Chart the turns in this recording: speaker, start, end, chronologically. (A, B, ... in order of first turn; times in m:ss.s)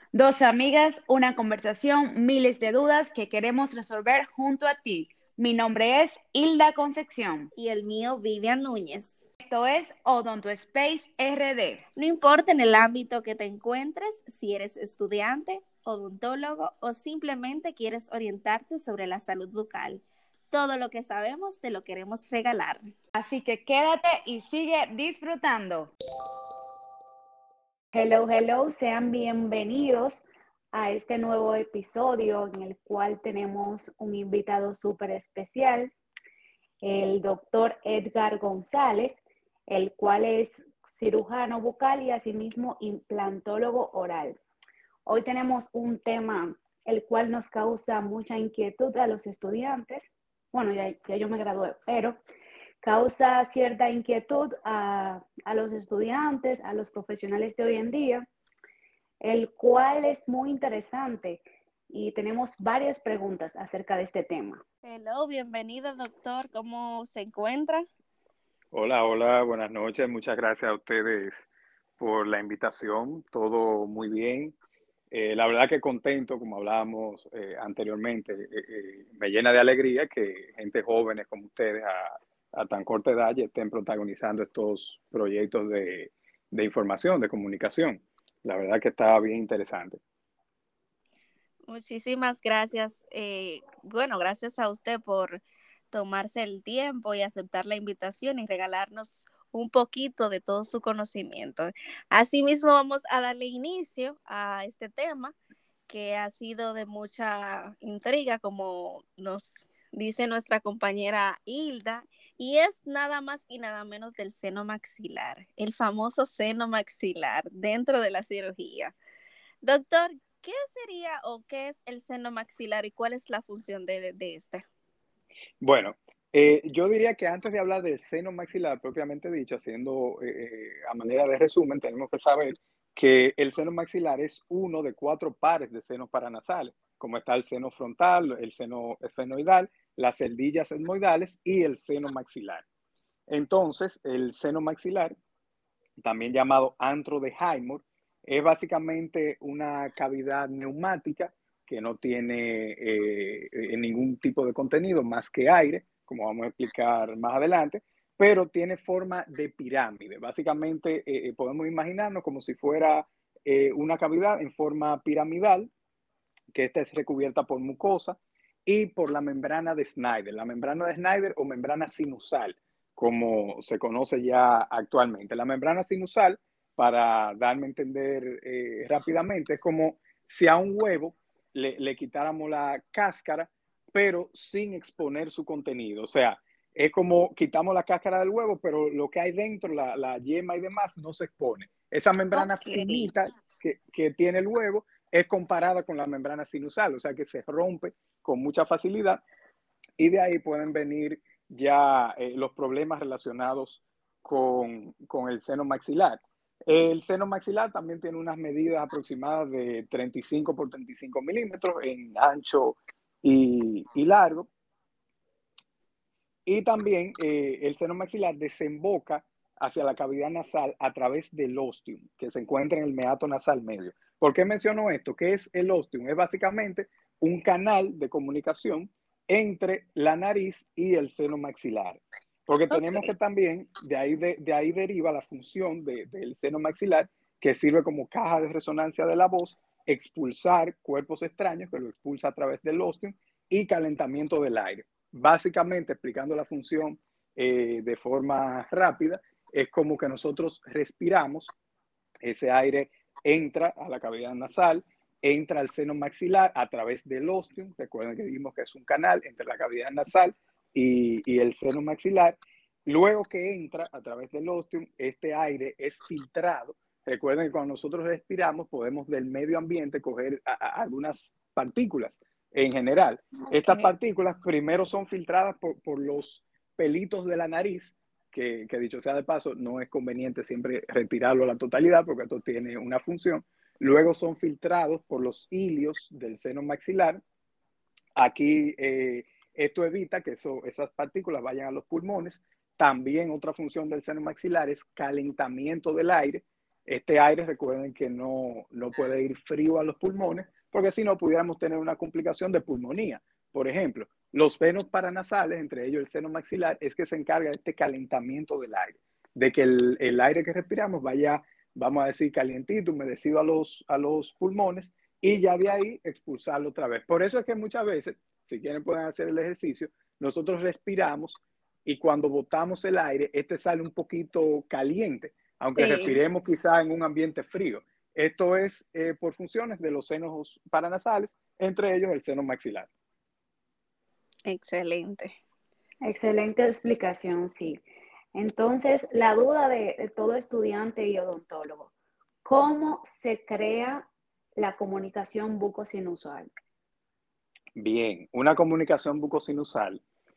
0:00.1-0:07.5 A
0:07.5-0:09.2 B
0:09.4-0:11.8 A
0:12.0-0:22.9 B
0:23.2-0:25.9 A
0:27.9-0:35.9 C
0:36.8-0:44.4 C
0:45.1-0:52.2 C
0:52.8-0:58.3 C
0:59.2-1:04.6 C
1:04.8-1:07.9 B
1:08.7-1:11.5 D
1:12.0-1:14.6 D
1:15.1-1:30.0 D
1:31.7-1:45.4 B
1:45.9-1:59.0 B
1:59.6-2:04.7 B
2:05.6-2:22.6 D
2:23.3-2:25.2 D
2:26.0-2:45.7 D
2:46.5-3:19.2 D
3:12.3-3:13.1 B
3:20.0-3:34.5 D
3:36.5-4:11.5 D
3:52.7-3:53.0 B
4:12.2-4:47.2 D
4:33.5-4:33.9 B
4:48.2-5:32.9 D
5:25.8-5:26.2 B
5:34.5-5:35.4 B
5:36.0-5:37.8 C
5:38.3-5:41.9 C
5:42.4-5:46.5 C
5:47.8-5:50.0 D